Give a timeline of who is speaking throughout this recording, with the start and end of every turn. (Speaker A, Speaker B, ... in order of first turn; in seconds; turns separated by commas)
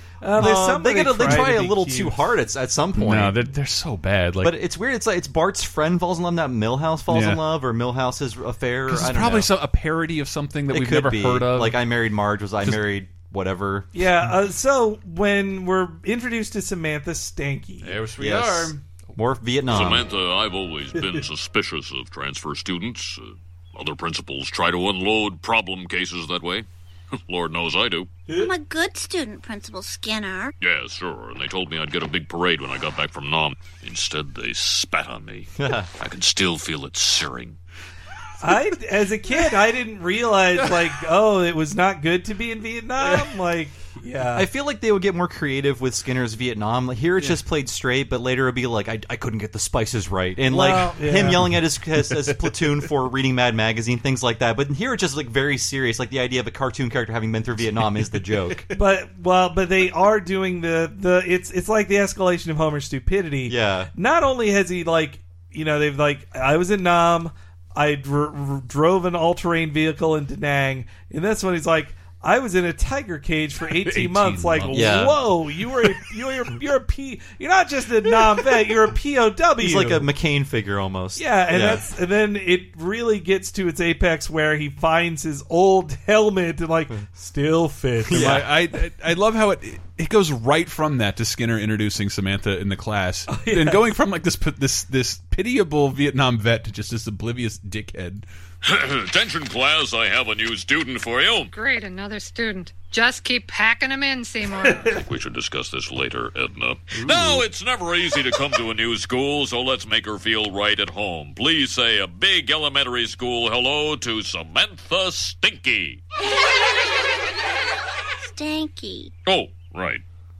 Speaker A: 0.2-2.2, Speaker B: 0.4-3.4, Speaker C: 2.9-4.5, Speaker B: 4.4-9.5, Speaker C: 7.1-7.4, Speaker C: 8.9-11.8, Speaker B: 10.7-13.9, Speaker A: 13.9-18.0, Speaker C: 17.8-18.8, Speaker B: 18.2-20.1, Speaker D: 19.7-28.2, Speaker E: 28.3-30.5, Speaker D: 30.6-37.6, Speaker B: 35.6-35.9, Speaker A: 38.4-44.5, Speaker B: 44.3-58.6, Speaker A: 50.5-51.5, Speaker A: 58.7-80.1, Speaker B: 63.5-63.9, Speaker C: 73.7-75.2, Speaker B: 74.7-75.2, Speaker B: 79.6-81.8, Speaker A: 81.2-88.5, Speaker B: 88.1-88.5, Speaker C: 88.1-98.2, Speaker A: 93.3-93.8, Speaker D: 98.6-101.5, Speaker F: 101.5-105.0, Speaker D: 104.9-116.0, Speaker E: 118.2-119.1, Speaker D: 119.2-120.0